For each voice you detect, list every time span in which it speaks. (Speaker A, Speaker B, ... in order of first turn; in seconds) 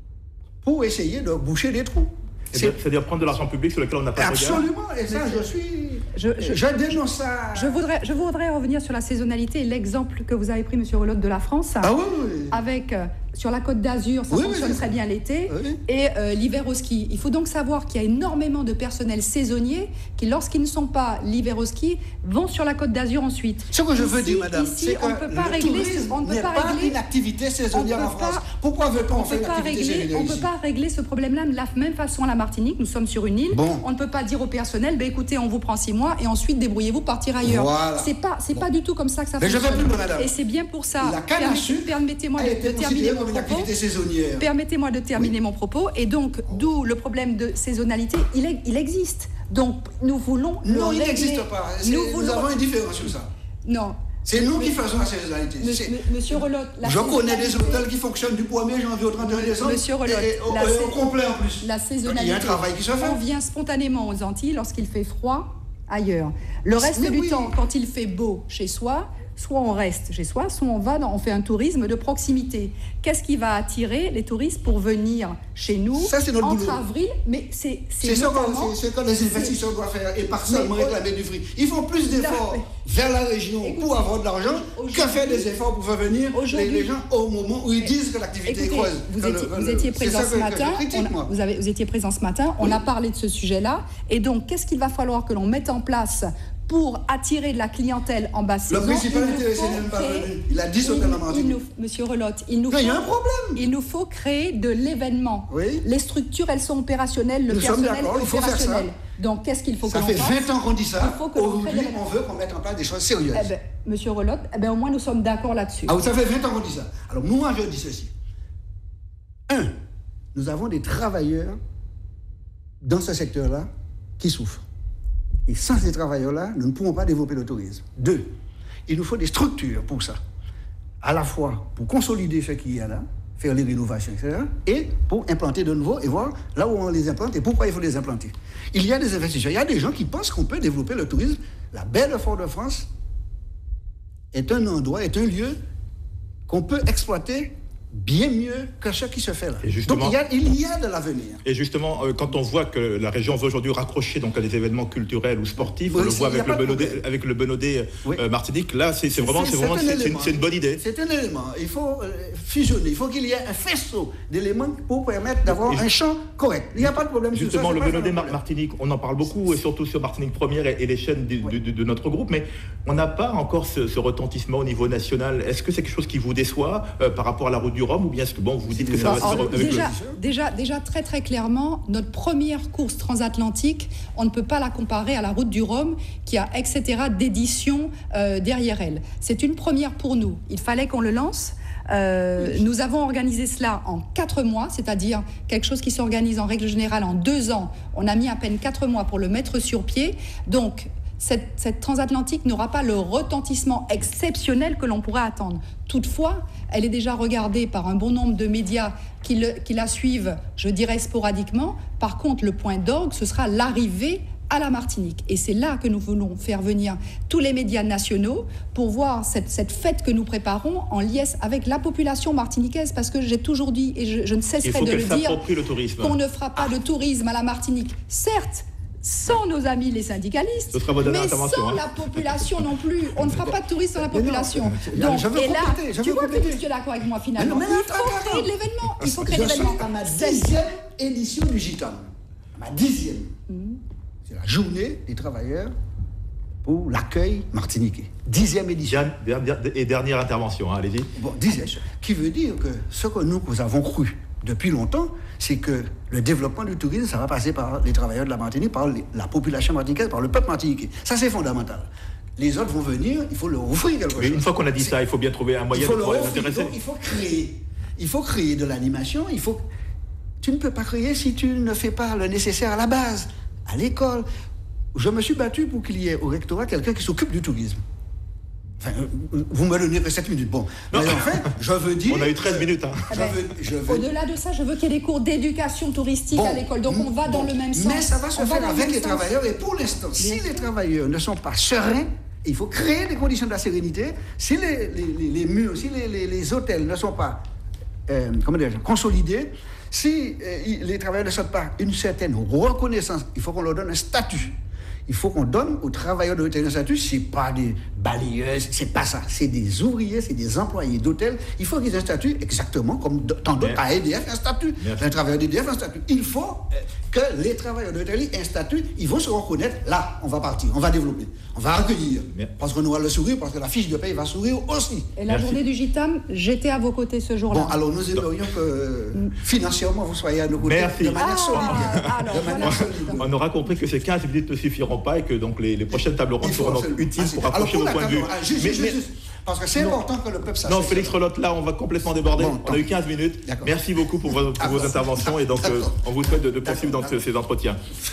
Speaker A: 0.6-2.8, 4.2-7.8, 11.8-12.6, 14.3-14.9, 15.5-15.8, 23.7-30.5, 33.5-33.8, 37.4-38.6, 39.4-40.3, 41.0-44.5, 50.6-53.3, 54.2-63.2, 66.7-67.5, 76.0-76.8, 78.0-91.3, 98.7-101.6, 102.7-103.6, 105.5-105.8, 107.5-108.9, 109.9-113.5, 115.9-118.1, 120.3-121.6, 122.8-123.7, 124.2-124.6, 125.5-128.3, 128.9-130.2, 131.0-142.9, 144.3-145.6, 146.5-151.4, 155.9-157.0, 159.1-168.4, 178.7-180.2, 234.0-236.6, 237.4-242.0, 242.6-243.3, 244.2-245.7, 246.6-249.1, 251.2-264.9, 265.7-269.6, 270.4-274.2, 274.9-277.8, 278.8-284.1, 286.3-297.4, 298.1-304.5, 305.1-325.1, 327.5-333.3, 336.4-341.2, 342.4-342.9, 343.4-343.7, 344.3-346.0, 346.6-347.2
Speaker B: 2.5-4.6, 149.6-150.2, 151.4-160.8, 165.5-165.8, 166.8-179.9, 224.6-226.2, 230.7-232.4, 248.9-251.1, 264.1-266.7, 280.9-281.5, 282.1-283.1, 325.3-325.6, 330.6-339.0, 340.6-347.8
Speaker C: 5.1-5.5, 6.1-6.8, 7.5-11.9, 12.5-27.0, 27.7-28.4, 29.1-43.7, 44.4-52.5, 53.6-54.8, 55.6-57.9, 59.2-61.1, 61.6-78.7, 79.2-79.6, 80.5-81.0, 82.0-82.7, 83.6-85.5, 86.3-86.9, 88.4-112.0, 113.3-115.9, 179.0-225.4, 226.0-240.5, 243.5-243.8, 283.1-289.3, 290.2-290.5, 325.2-327.8, 331.1-333.2